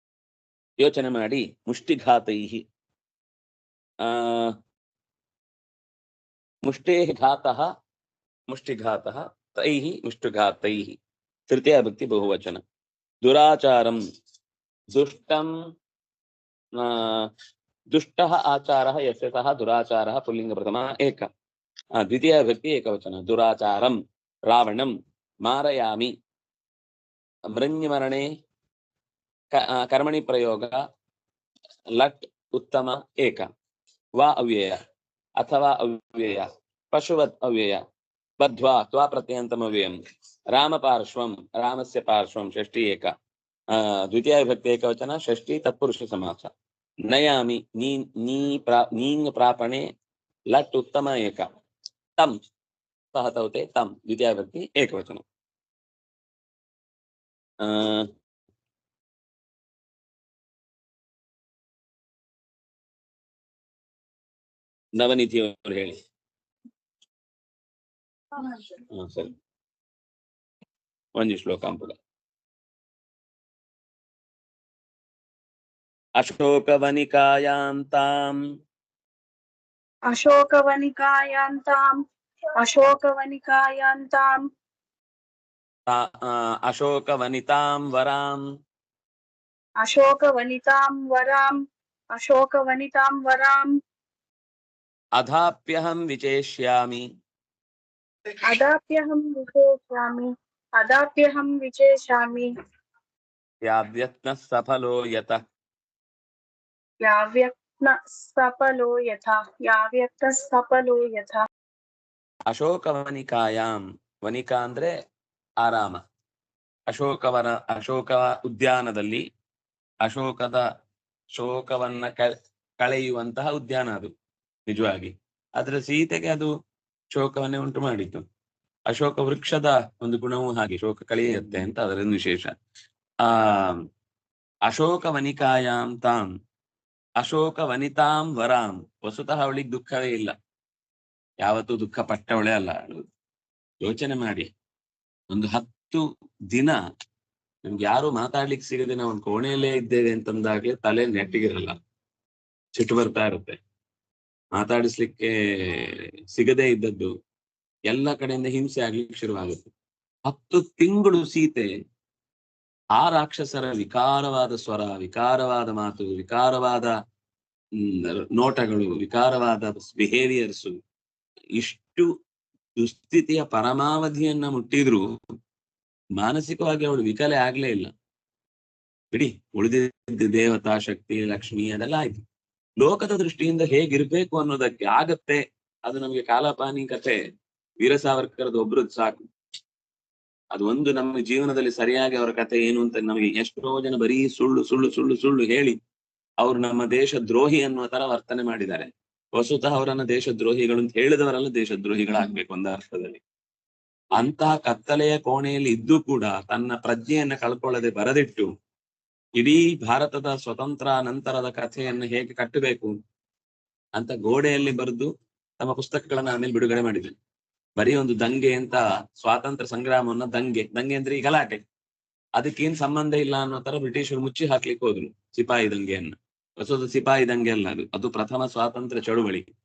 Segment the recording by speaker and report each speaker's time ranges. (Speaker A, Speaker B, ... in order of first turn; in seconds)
Speaker A: 0.8-2.6, 4.0-4.5, 6.6-7.7, 8.5-11.0, 11.5-12.6, 13.2-14.0, 14.9-15.5, 16.8-17.3, 17.9-21.3, 21.9-26.1, 27.5-28.3, 29.5-30.8, 31.9-33.5, 34.2-34.8, 35.4-37.8, 38.4-40.0, 40.5-43.1, 43.7-46.5, 47.1-49.9, 50.5-51.5, 53.1-55.2, 57.6-58.1, 65.0-66.0, 68.9-69.3, 71.2-72.0, 76.2-78.4, 85.9-88.4, 95.2-97.0, 103.6-105.4, 112.5-114.9, 115.6-116.0, 116.9-119.2, 120.0-120.7, 121.3-124.1, 124.7-126.5, 127.1-128.2, 128.9-132.5, 133.2-133.8, 134.7-136.3, 137.2-140.3, 141.4-143.1, 143.8-144.5, 145.3-146.8, 147.7-151.8, 152.8-153.6, 154.6-157.1, 157.9-159.7, 160.3-161.7, 162.9-166.9, 167.8-170.8, 171.6-172.1, 172.8-175.1, 176.2-177.9, 179.1-182.2, 182.8-187.2, 187.8-189.2, 190.5-195.8, 196.4-203.2, 204.2-208.5, 209.4-212.9, 214.0-217.1, 217.8-221.6, 222.4-229.5
Speaker B: 80.1-82.0, 82.6-84.4, 89.8-91.6, 92.2-93.7, 98.5-102.5, 107.0-111.4